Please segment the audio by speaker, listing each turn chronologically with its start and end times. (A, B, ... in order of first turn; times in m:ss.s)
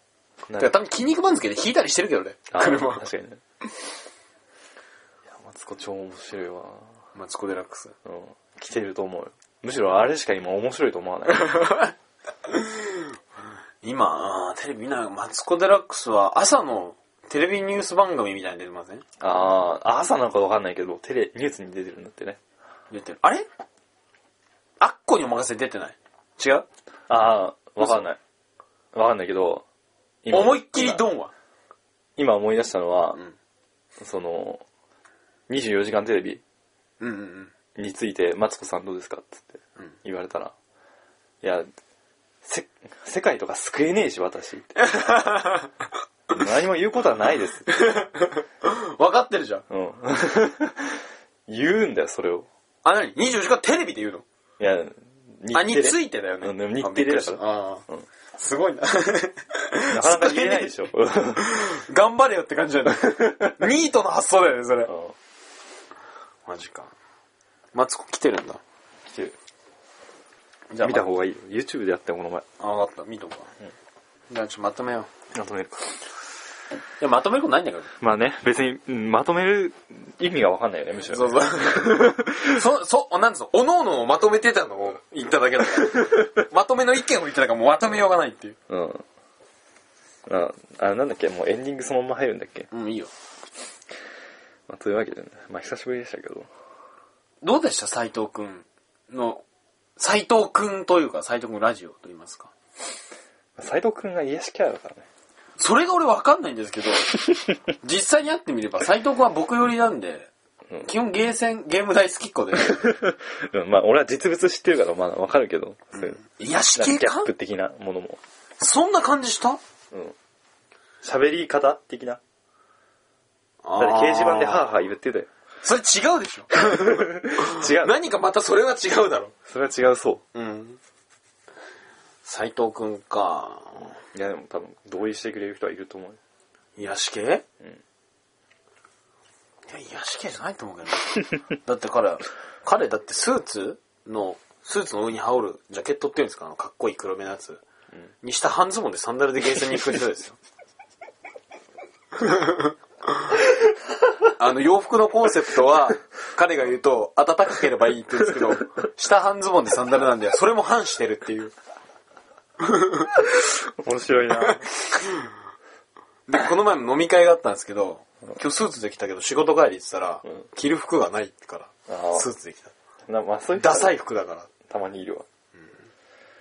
0:00.5-0:00.8 A
0:00.6-0:03.0 B
0:02.5-0:03.4 A
0:05.3-0:06.9 A
0:07.2-0:07.9 B
0:08.0-0:11.7 A
0:11.3-0:11.9 B
0:12.5-0:12.8 B
0:13.8-0:19.0 B
0:19.2-0:22.4 A
0:22.9-0:23.5 B
0:24.8-0:26.7 B
0:27.1-0:28.2 A
0:27.8-0:28.1 B
0:28.9-0:29.6 A
0:30.2-0:31.0 A
0:30.3-0:31.3 B
0:32.2-0:33.2 A
0:34.0-0:34.6 A
0:35.5-0:36.4 A
0:37.0-0:37.5 B
0:37.8-0:40.5 A
0:41.4-0:41.7 A
0:42.4-0:44.8 A
0:44.8-0:45.7 B
0:46.3-0:47.8 A
0:47.7-0:49.6 B
0:49.7-0:52.5 A
0:52.8-0:54.2 B
0:54.6-0:58.1 A
0:55.5-0:57.8 B
0:58.4-1:00.7 B
0:59.9-1:01.5 A
1:01.4-1:04.9 B
1:03.0-1:03.5 A
1:04.9-1:05.2 A
1:06.5-1:06.9 B
1:07.8-1:08.6 B
1:09.1-1:09.4 A
1:10.7-1:11.0 B
1:10.8-1:12.4 A
1:12.6-1:13.5 B
1:14.3-1:15.1 B
1:15.3-1:16.0 A
1:17.0-1:17.9 B
1:18.0-1:22.5 A
1:21.1-1:28.6 B
1:28.7-1:29.0 A
1:30.3-1:32.7 A
1:32.7-1:33.1 B
1:34.7-1:36.5 A
1:37.4-1:39.4 B
1:40.0-1:42.5 B
1:43.6-1:45.1 A
1:45.6-1:47.1 B
1:47.8-1:50.3 B
1:50.8-1:52.8 B
1:52.6-1:56.2 A
1:55.9-1:57.3 B
1:56.8-1:58.2 A
1:58.6-1:59.6 B
1:59.9-2:00.2 A
2:01.0-2:02.2 A
2:03.6-2:04.6 B
2:03.8-2:05.3 A
2:05.6-2:09.3 B
2:06.6-2:08.0 A
2:09.5-2:10.2 A
2:10.3-2:10.8 B
2:12.2-2:13.9 B
2:14.1-2:16.2 A
2:16.8-2:17.4 B
2:19.7-2:27.6 B
2:28.2-2:30.4 B
2:32.2-2:32.6 B
2:34.4-2:41.5 B
2:42.7-2:43.1 B
2:43.1-2:45.0 A
2:46.3-2:52.7 B
2:51.9-2:52.3 A
2:53.1-2:54.0 A
2:53.6-2:54.5 B
2:54.6-2:55.3 A